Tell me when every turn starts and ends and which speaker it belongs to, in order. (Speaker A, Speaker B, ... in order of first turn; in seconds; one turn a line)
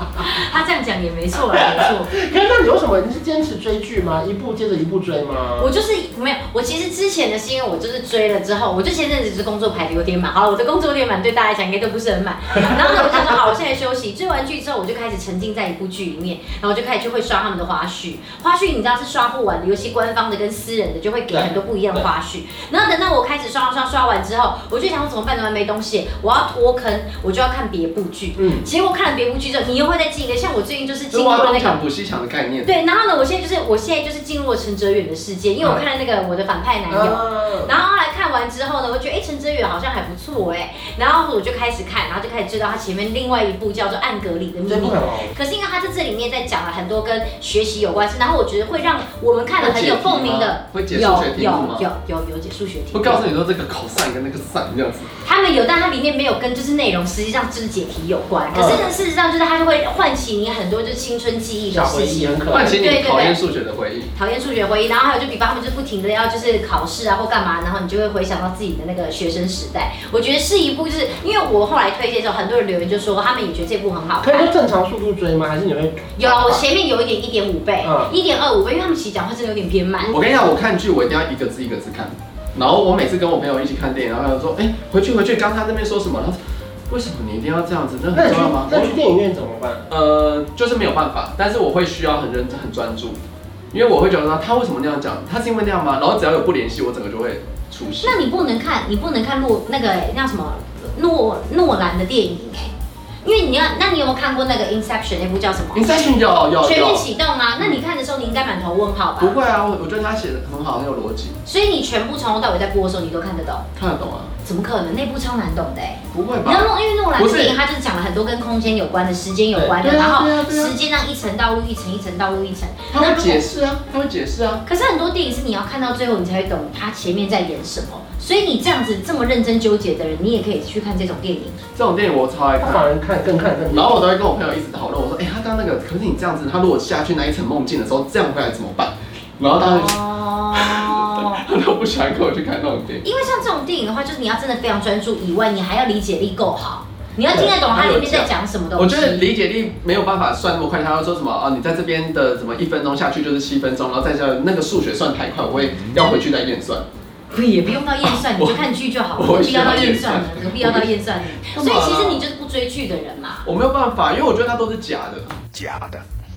Speaker A: 0.2-2.1
Speaker B: 1.5-5.7
Speaker A: 5.6-31.8
Speaker B: 21.3-21.6
Speaker B: 28.4-28.7
Speaker C: 31.1-32.7
Speaker A: 32.6-53.3
Speaker B: 36.9-37.7
Speaker B: 44.7-45.4
Speaker C: 49.6-51.9
Speaker C: 52.9-55.1
Speaker A: 55.2-63.4
Speaker B: 58.5-58.9
Speaker B: 61.7-62.8
Speaker C: 62.5-64.1
Speaker A: 64.1-74.5
Speaker B: 74.2-76.7
Speaker A: 76.2-80.2
Speaker B: 77.8-78.1
Speaker C: 80.1-89.0
Speaker B: 88.1-89.9
Speaker C: 89.9-93.2
Speaker C: 93.7-98.2
Speaker A: 98.0-105.9
Speaker C: 105.7-107.1
Speaker A: 106.6-109.3
Speaker C: 109.2-111.4
Speaker A: 111.5-113.7
Speaker C: 113.8-114.3
Speaker A: 114.4-123.5
Speaker C: 116.1-117.6
Speaker B: 119.5-119.9
Speaker C: 119.8-120.8
Speaker C: 122.9-124.6
Speaker A: 124.7-131.6
Speaker C: 131.8-132.9
Speaker B: 132.6-134.0
Speaker C: 133.7-140.0
Speaker A: 139.5-141.4
Speaker C: 140.5-143.0
Speaker A: 143.0-149.3
Speaker C: 147.3-156.8
Speaker A: 157.3-163.5
Speaker C: 158.0-158.6
Speaker C: 159.2-162.2
Speaker C: 163.4-165.4